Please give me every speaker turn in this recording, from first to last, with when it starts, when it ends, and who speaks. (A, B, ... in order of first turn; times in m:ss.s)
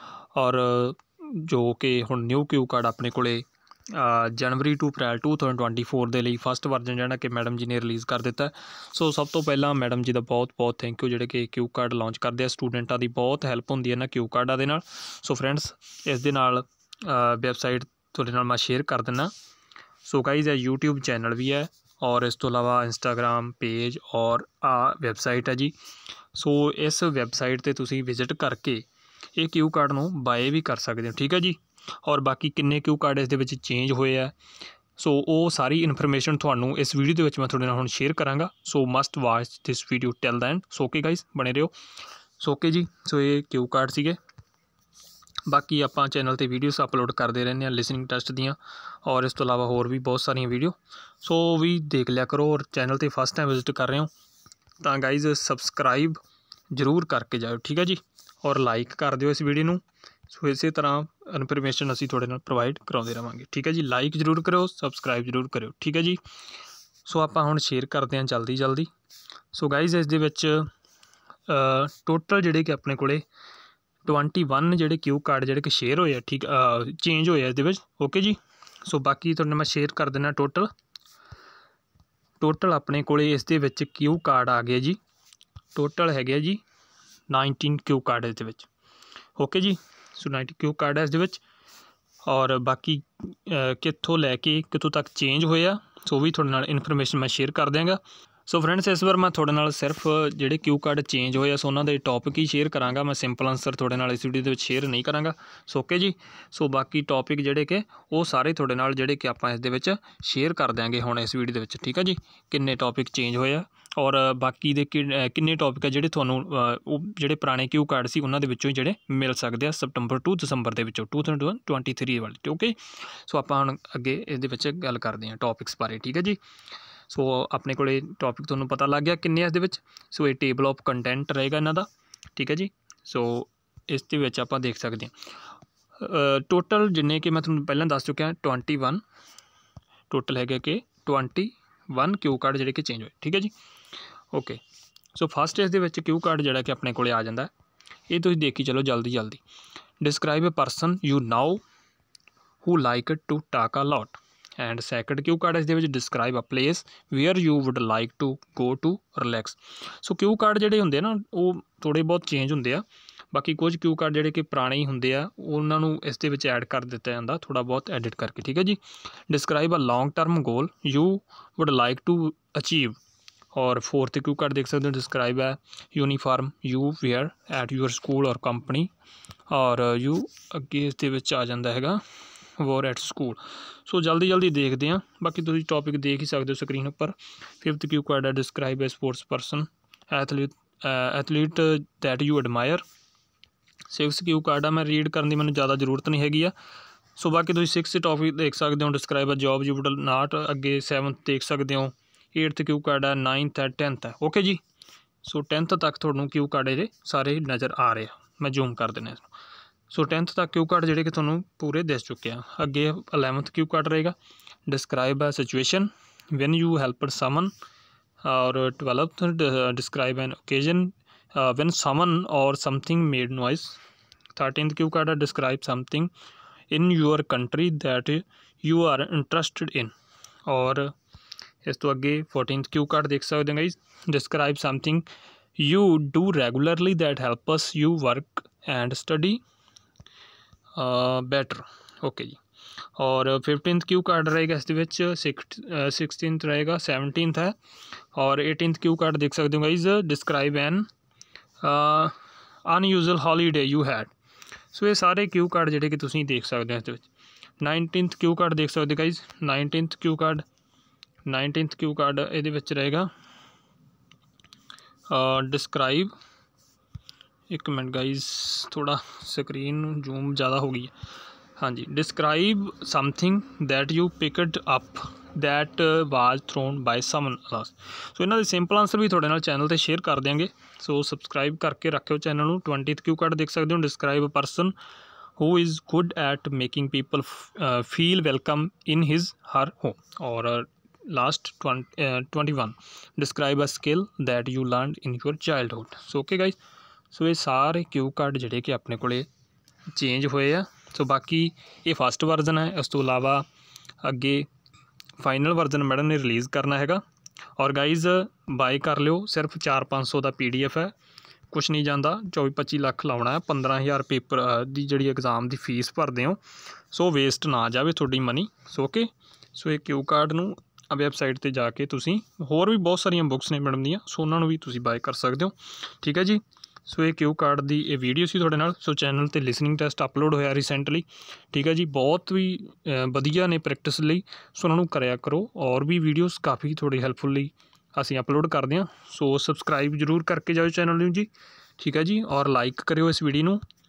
0:00.4-0:19.3 A
0:20.0-0:25.7 A
0:26.3-0:34.3 A
0:35.0-0:41.7 A
0:42.4-0:44.2 A
0:45.5-0:54.1 A
0:54.8-0:56.2 A
0:56.7-1:06.2 A
1:07.0-1:08.9 A
1:09.5-1:10.7 A
1:11.5-1:13.2 A
1:14.0-1:20.7 A
1:22.4-1:25.0 A
1:25.8-1:26.6 A
1:27.3-1:28.7 A
1:29.4-1:31.4 A
1:32.3-2:06.4 A
2:07.1-2:15.1 A
2:16.0-2:19.0 A
2:20.1-2:23.5 A
2:24.3-2:24.6 A
2:25.2-2:27.5 A
2:28.1-2:29.4 A
2:30.0-2:31.6 A
2:32.6-2:53.0 A
2:53.5-2:58.9 A
2:59.5-3:02.0 A
3:02.6-3:12.8 A
3:13.9-3:16.5 A
3:17.2-3:24.6 A
3:25.2-3:29.2 A
3:29.9-3:34.2 A
3:34.7-3:37.5 A
3:38.2-3:43.8 A
3:44.4-3:46.1 A
3:46.7-3:49.9 A
3:50.5-3:50.9 A
3:51.6-3:55.0 A
3:55.6-3:59.4 A
4:00.8-4:02.4 A
4:03.0-4:07.6 A
4:08.1-4:10.9 A
4:11.6-4:12.1 A
4:12.6-4:14.1 A
4:14.7-4:17.1 A
4:17.6-4:20.4 A
4:21.2-4:23.1 A
4:25.1-4:26.1 A
4:27.5-4:30.9 A
4:31.6-4:44.7 A
4:45.4-4:56.6 A
4:57.1-4:59.3 A
4:59.9-5:03.4 A
5:04.0-5:04.5 A
5:05.2-5:07.0 A
5:07.6-5:10.9 A
5:11.5-5:16.4 A
5:16.9-5:43.6 A